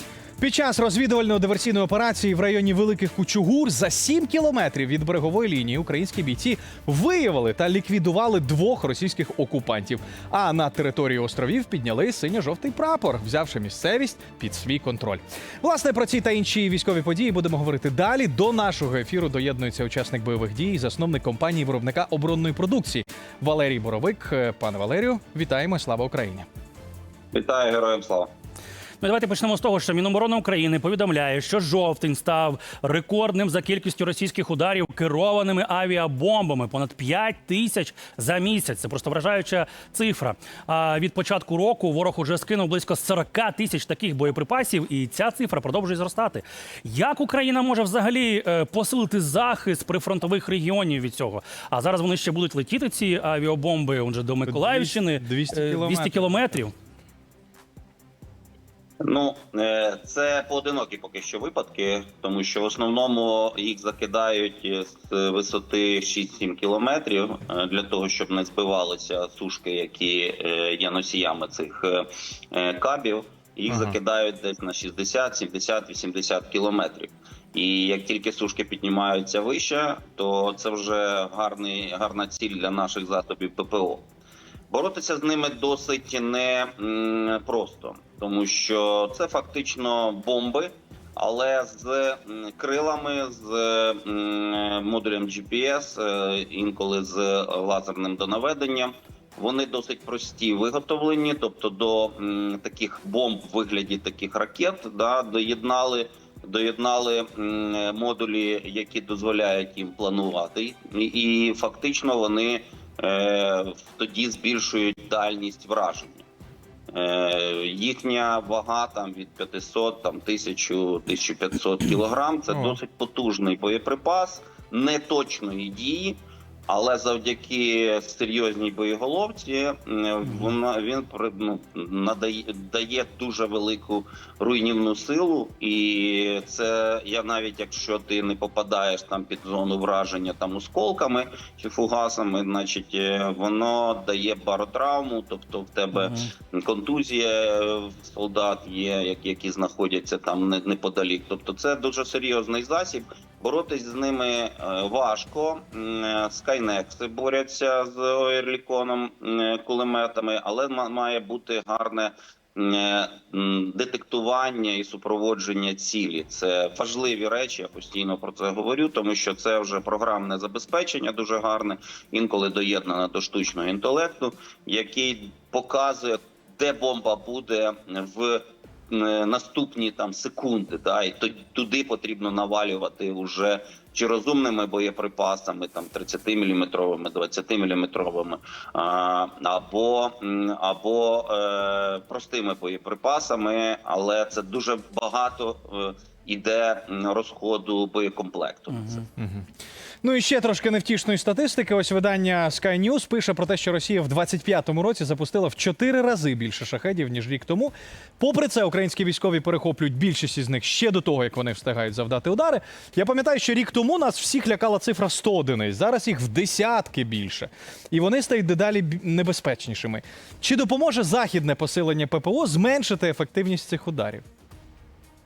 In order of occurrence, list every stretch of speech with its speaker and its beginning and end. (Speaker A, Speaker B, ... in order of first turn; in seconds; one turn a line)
Speaker A: 0.4-26.4
Speaker B: 27.3-28.3
Speaker C: 29.0-56.7
Speaker A: 54.5-56.5
Speaker B: 59.0-84.0
Speaker A: 73.7-74.0
Speaker B: 84.7-116.2
Speaker B: 116.9-198.9
Speaker A: 122.5-122.8
Speaker C: 145.9-146.3
Speaker C: 198.7-199.1
Speaker A: 199.2-199.5
Speaker A: 200.0-224.2